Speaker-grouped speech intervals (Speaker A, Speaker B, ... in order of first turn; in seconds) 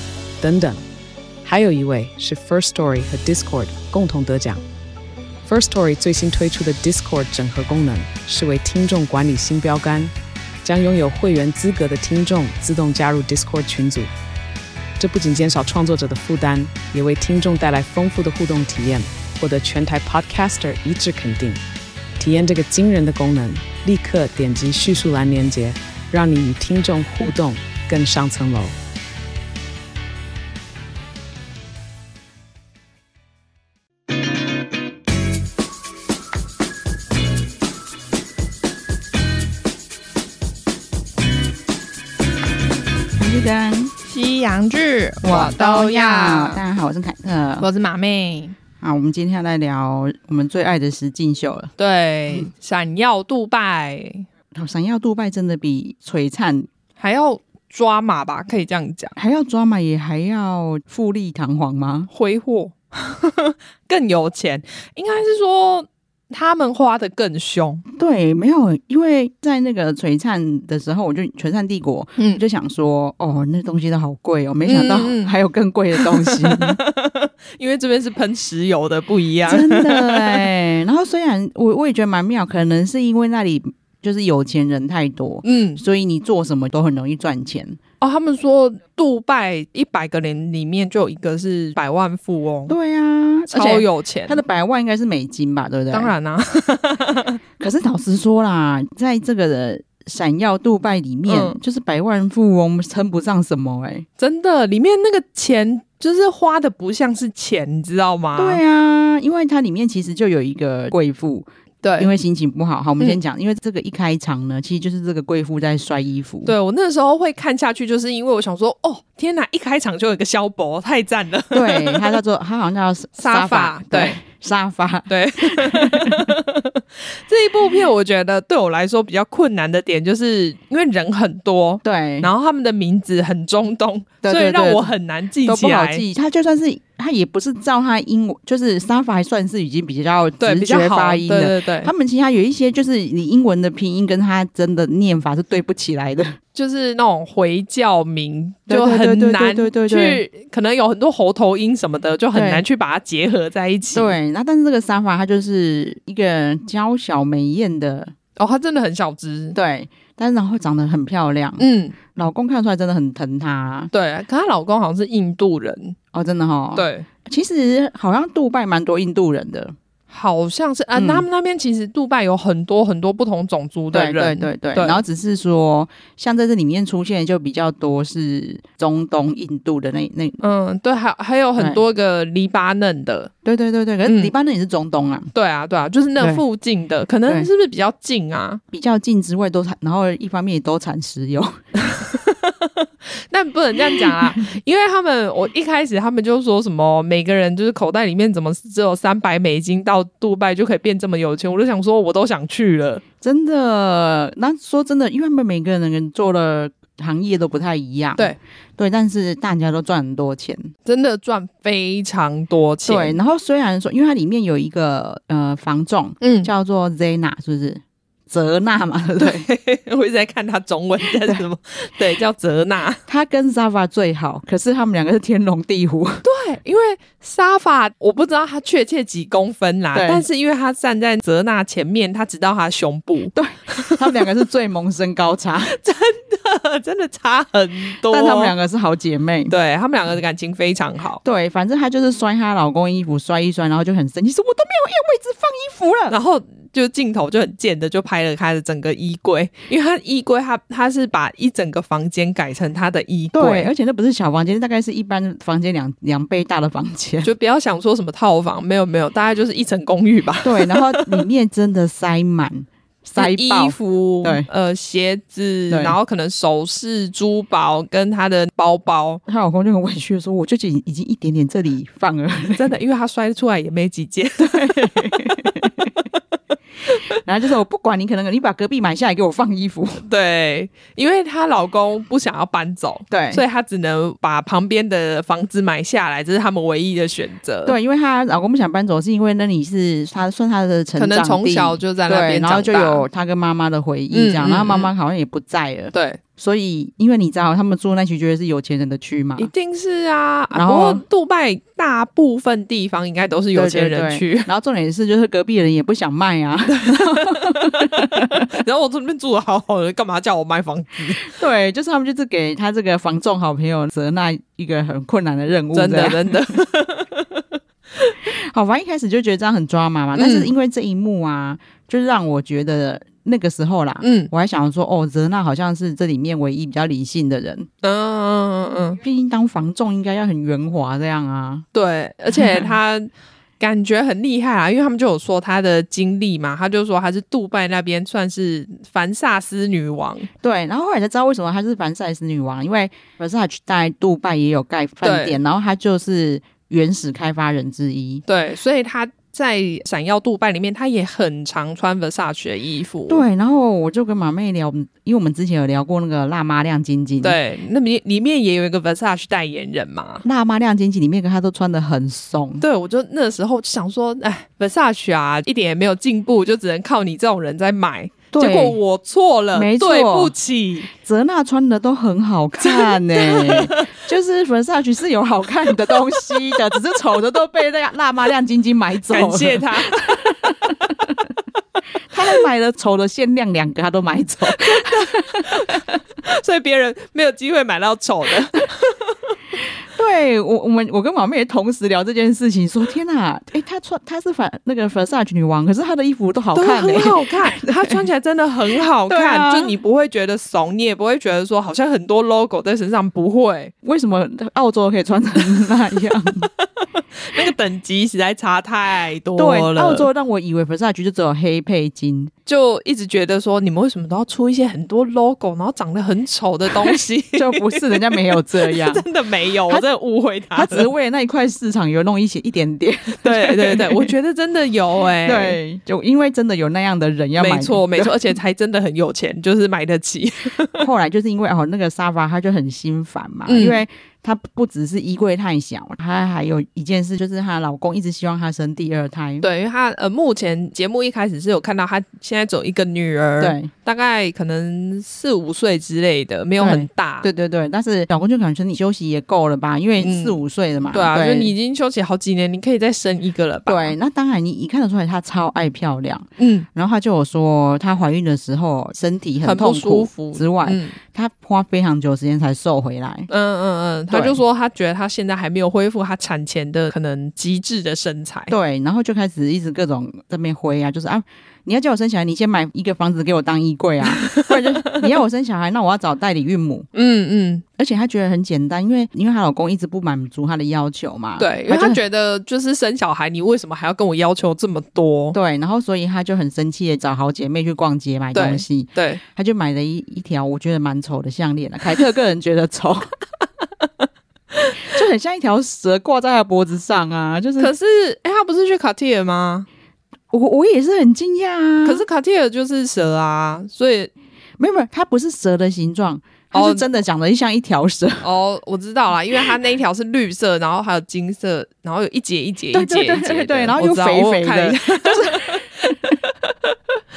Speaker A: 0.4-0.8, 1.4-4.6, 5.5-14.1, 15.0-21.6, 22.2-28.8
Speaker B: 43.2-43.9, 45.2-47.7, 48.8-51.7, 54.5-56.7, 59.2-62.1, 68.0-76.8, 79.5-87.8, 92.7-96.1, 97.6-104.1, 108.4-111.5, 112.0-116.5, 121.5-126.3, 131.8-132.3, 134.2-134.9, 135.4-146.4, 148.7-150.2, 152.3-152.6, 153.9-158.1, 159.6-163.9, 166.1-169.8, 170.9-171.3, 173.9-180.4, 183.4-185.3, 188.7-191.6, 193.8-194.3, 203.2-210.7, 212.9-219.5, 223.1-226.2, 229.9-230.3, 233.3-235.7, 238.1-239.5, 241.2-246.2, 253.3-257.3, 260.4-264.5, 265.7-266.0, 269.3-272.7, 274.4-275.9, 277.2-280.0, 283.1-283.4, 287.6-299.5, 300.5-301.0, 303.6-308.5, 311.2-316.5, 318.3-327.7, 329.0-331.6, 332.3-332.7, 340.4-348.2, 353.1-357.4, 360.2-362.6, 368.3-368.8, 369.5-370.3, 370.9-381.1, 382.1-385.8, 389.8-398.1, 399.1-399.7, 403.8-406.5, 409.4-412.3, 416.9-419.1, 420.5-424.1, 425.2-428.3, 430.8-439.4, 443.4-443.7, 446.6-451.5, 453.7-463.3, 464.1-464.4, 468.5-476.9, 477.8-482.0, 485.3-493.1, 494.9-497.7, 500.3-502.0, 504.6-508.3, 512.7-516.2
Speaker C: 44.1-46.6, 47.6-48.6, 51.8-54.3, 57.0-59.1, 62.1-67.8, 72.2-72.4, 74.7-75.3, 76.0-80.5, 85.4-85.8, 88.0-92.8, 93.5-94.4, 95.9-97.4, 101.3-101.6, 104.2-108.6, 111.8-112.1, 116.5-122.2, 123.2-124.2, 125.1-136.0, 140.4-141.9, 146.6-154.2, 158.4-159.6, 161.6-162.0, 163.9-166.0, 166.8-167.1, 170.1-175.0, 180.4-183.3, 184.1-184.3, 185.3-188.6, 191.8-203.0, 210.9-213.2, 216.2-216.5, 219.2-223.0, 226.2-234.2, 235.6-238.6, 239.5-241.2, 246.1-253.7, 257.2-261.2, 263.2-269.2, 272.6-275.6, 276.9-277.2, 280.0-287.8, 291.0-293.1, 294.1-294.9, 295.9-296.2, 299.4-304.5, 306.7-311.3, 315.7-317.5, 320.1-320.5, 324.0-324.3, 327.8-329.0, 331.7-340.3, 345.0-345.4, 348.3-353.2, 357.2-360.2, 362.6-370.9, 372.6-373.8, 379.1-380.1, 384.5-389.1, 396.6-403.7, 405.6-410.1, 412.5-420.9, 423.1-425.6, 427.4-430.8, 433.5-433.8, 439.4-447.3, 450.0-450.4, 450.9-453.9, 456.4-456.7, 459.4-461.0, 463.3-468.5, 474.0-475.1, 476.9-477.6, 481.4-485.4, 488.3-489.2, 497.6-499.7, 501.8-504.1, 506.5-507.0, 508.2-516.2